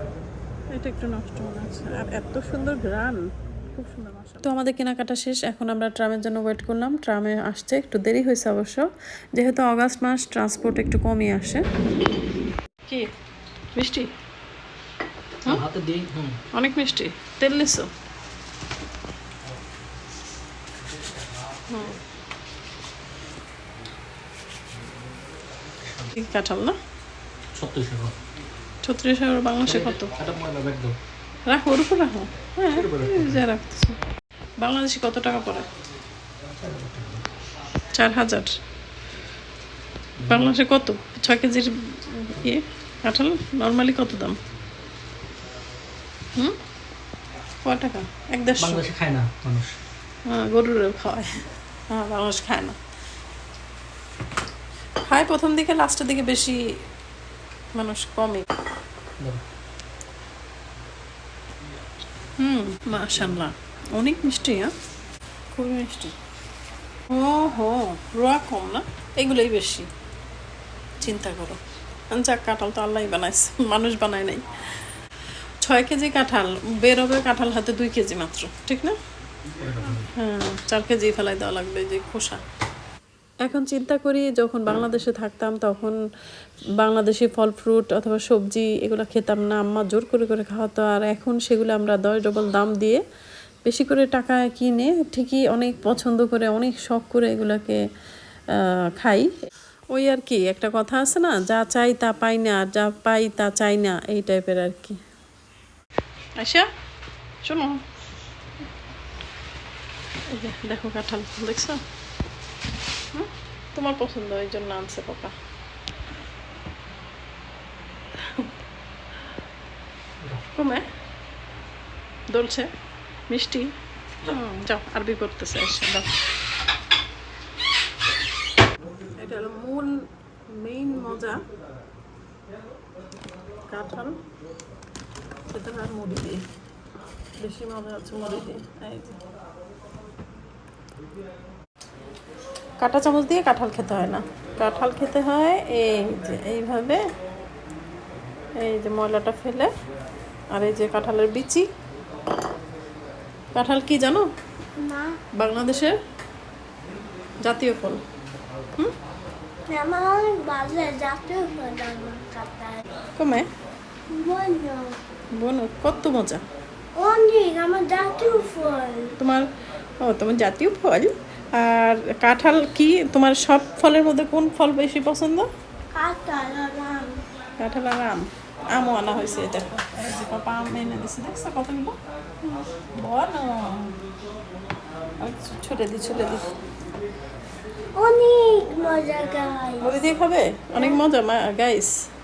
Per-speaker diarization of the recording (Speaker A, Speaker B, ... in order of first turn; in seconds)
Speaker A: 0.7-3.2, 3.8-11.6, 13.7-14.1, 16.5-17.9, 21.7-22.0, 26.1-26.8, 28.8-30.1, 31.5-34.0, 34.6-35.7, 37.9-38.5, 40.3-44.4, 47.6-48.8, 50.3-52.8, 55.0-56.6, 57.7-58.4, 62.4-64.7, 65.5-66.1, 67.1-69.9, 71.0-71.6, 72.1-74.4, 75.6-78.9, 80.1-82.4, 83.4-85.9, 86.8-93.0, 93.7-97.8, 99.0-99.3, 99.9-105.0, 106.4-106.7, 107.4-107.8, 110.3-111.8, 113.1-115.3, 118.2-118.5, 120.5-120.8, 122.3-122.7, 123.3-123.7, 124.2-126.1, 129.2-130.0, 130.5-131.4, 133.7-134.1, 135.5-136.4, 137.4-139.1, 142.8-147.0, 148.6-149.7, 150.5-151.7, 153.5-154.3, 155.4-155.9, 157.4-158.0, 163.2-163.5, 165.3-166.4, 169.2-169.5, 170.0-175.5, 177.6-182.0, 182.9-183.9, 185.2-186.5, 189.8-192.1
Speaker B: 15.4-16.4, 25.8-26.1, 27.5-28.1, 29.6-31.0, 32.7-33.4, 36.6-37.2, 40.2-40.5, 48.6-49.8, 79.6-80.1
Speaker C: 154.8-155.2, 159.7-162.8, 164.1-165.0, 166.9-169.2, 175.9-177.2, 182.4-182.7, 187.9-189.9, 190.8-191.0